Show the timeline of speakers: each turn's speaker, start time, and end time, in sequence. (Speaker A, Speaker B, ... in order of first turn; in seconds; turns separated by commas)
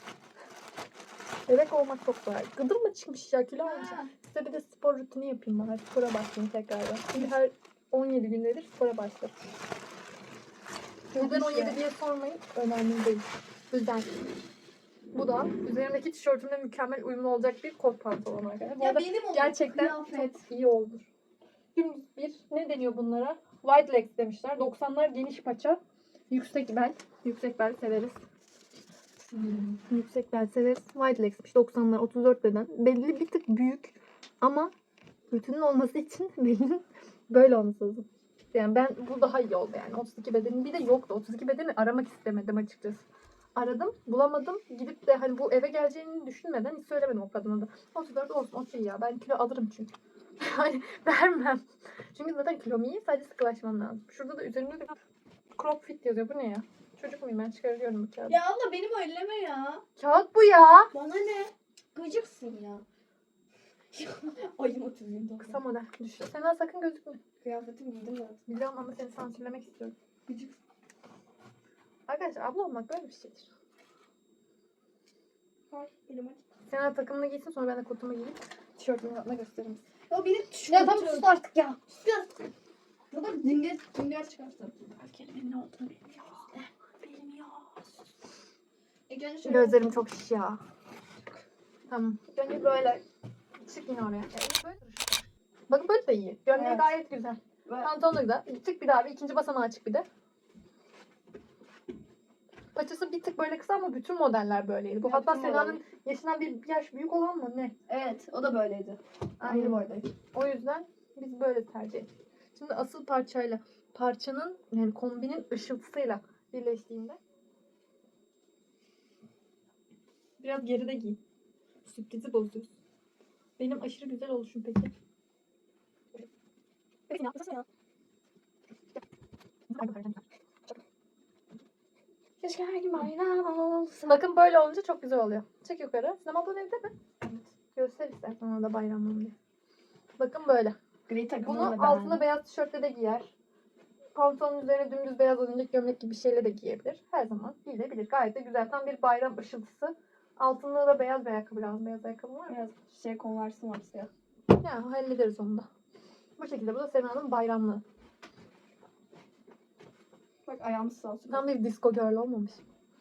Speaker A: 1.5-9.3, Speaker B: 3.6-4.1, Speaker A: 11.1-14.1, Speaker B: 11.2-11.8, Speaker A: 15.1-21.1, Speaker B: 18.7-20.4, Speaker A: 21.7-28.2, Speaker B: 29.2-29.8, Speaker A: 29.9-34.7, Speaker A: 35.3-43.0, Speaker A: 43.5-51.6, Speaker A: 52.1-54.9, Speaker A: 55.5-58.4, Speaker B: 58.3-59.8, Speaker A: 60.0-60.9, Speaker B: 60.9-62.8, Speaker B: 63.9-65.6, Speaker A: 65.4-67.2, Speaker B: 67.4-68.4, Speaker A: 68.5-69.9, Speaker B: 70.3-70.5, Speaker A: 72.1-73.5, Speaker B: 75.7-76.4, Speaker A: 76.7-79.8, Speaker B: 80.1-82.3, Speaker A: 80.7-81.5, Speaker B: 83.1-84.8, Speaker A: 84.9-87.9, Speaker B: 89.1-90.0, Speaker A: 89.4-90.6, Speaker A: 91.9-92.2, Speaker B: 92.3-93.0, Speaker A: 93.6-100.0, Speaker B: 96.5-97.0, Speaker B: 97.7-97.9, Speaker A: 102.7-107.7, Speaker B: 105.0-105.8, Speaker B: 107.9-110.1, Speaker A: 109.4-117.2, Speaker A: 120.4-121.2, Speaker A: 121.8-122.7, Speaker A: 123.6-124.9, Speaker B: 127.1-127.6, Speaker A: 127.2-127.5, Speaker A: 129.7-130.2, Speaker B: 132.4-134.2, Speaker A: 134.1-137.0, Speaker A: 137.6-139.3, Speaker A: 140.2-140.8, Speaker B: 141.1-142.3, Speaker A: 141.4-143.3, Speaker A: 144.1-152.6, Speaker B: 152.5-154.1, Speaker A: 154.6-155.7, Speaker A: 156.4-157.8, Speaker B: 160.4-161.5, Speaker A: 161.3-162.6